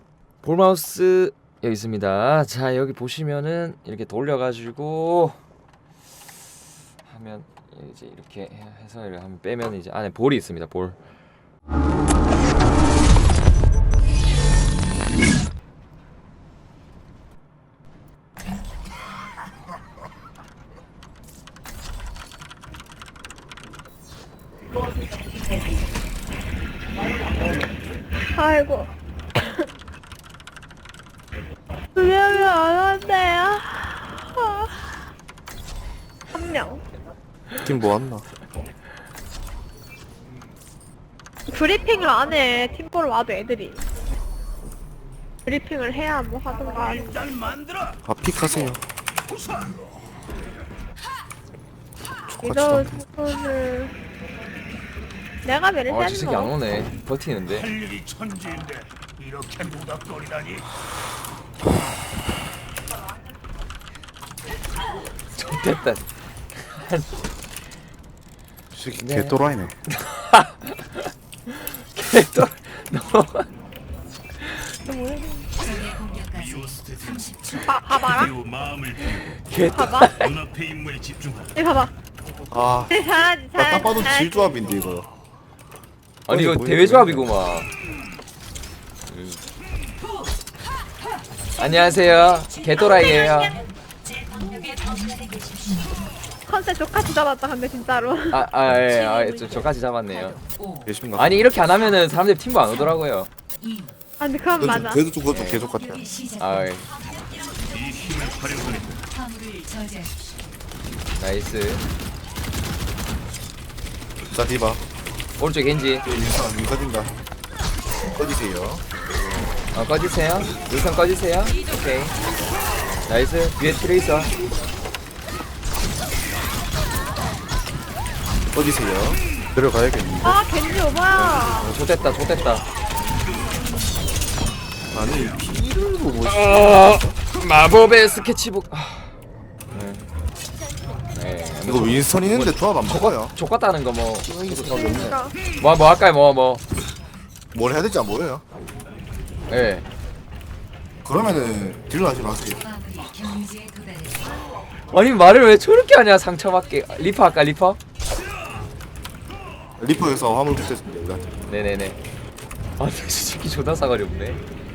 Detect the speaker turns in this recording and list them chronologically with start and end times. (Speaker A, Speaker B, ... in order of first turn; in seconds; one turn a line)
Speaker A: 0.4-5.4
Speaker A: 7.1-11.0
Speaker B: 28.3-29.6
Speaker B: 31.9-34.9
Speaker B: 36.3-36.8
Speaker C: 37.6-38.2
Speaker B: 41.5-43.8
Speaker B: 45.5-47.1
Speaker D: 47.0-48.0
Speaker C: 48.1-48.8
Speaker D: 49.3-50.2
Speaker C: 52.3-52.9
Speaker B: 52.4-53.9
Speaker B: 55.4-56.5
Speaker A: 55.9-57.7
Speaker D: 57.5-60.7
Speaker A: 65.4-67.2
Speaker C: 68.8-69.7
Speaker A: 69.0-73.5
Speaker B: 74.9-75.5
Speaker D: 76.3-79.4
Speaker B: 77.7-78.3
Speaker A: 79.5-80.3
Speaker B: 79.7-80.1
Speaker D: 80.1-81.6
Speaker B: 81.6-81.9
Speaker C: 82.5-82.9
Speaker B: 82.9-84.5
Speaker C: 83.6-85.1
Speaker A: 86.3-87.7
Speaker C: 86.3-87.3
Speaker A: 89.1-89.4
Speaker A: 91.6-93.6
Speaker B: 96.5-98.4
Speaker A: 98.3-100.4
Speaker C: 100.9-101.4
Speaker A: 101.2-103.3
Speaker B: 104.2-105.0
Speaker C: 104.6-106.1
Speaker A: 105.3-105.7
Speaker A: 106.4-107.0
Speaker D: 107.7-109.1
Speaker A: 111.2-111.8
Speaker C: 114.3-114.8
Speaker A: 115.4-116.0
Speaker C: 116.0-117.1
Speaker C: 118.1-119.5
Speaker A: 119.7-122.1
Speaker A: 123.1-124.3
Speaker C: 128.5-130.4
Speaker B: 130.2-131.7
Speaker C: 131.2-131.7
Speaker A: 131.6-132.7
Speaker C: 134.9-136.6
Speaker A: 136.2-139.1
Speaker A: 139.7-140.0
Speaker A: 141.1-145.0
Speaker C: 141.7-143.3
Speaker C: 144.3-145.2
Speaker B: 144.7-145.3
Speaker A: 145.6-146.6
Speaker C: 147.5-148.4
Speaker A: 149.5-149.9
Speaker C: 151.1-152.7
Speaker A: 154.9-157.8
Speaker C: 159.8-161.2
Speaker A: 161.5-162.0
Speaker A: 162.8-164.4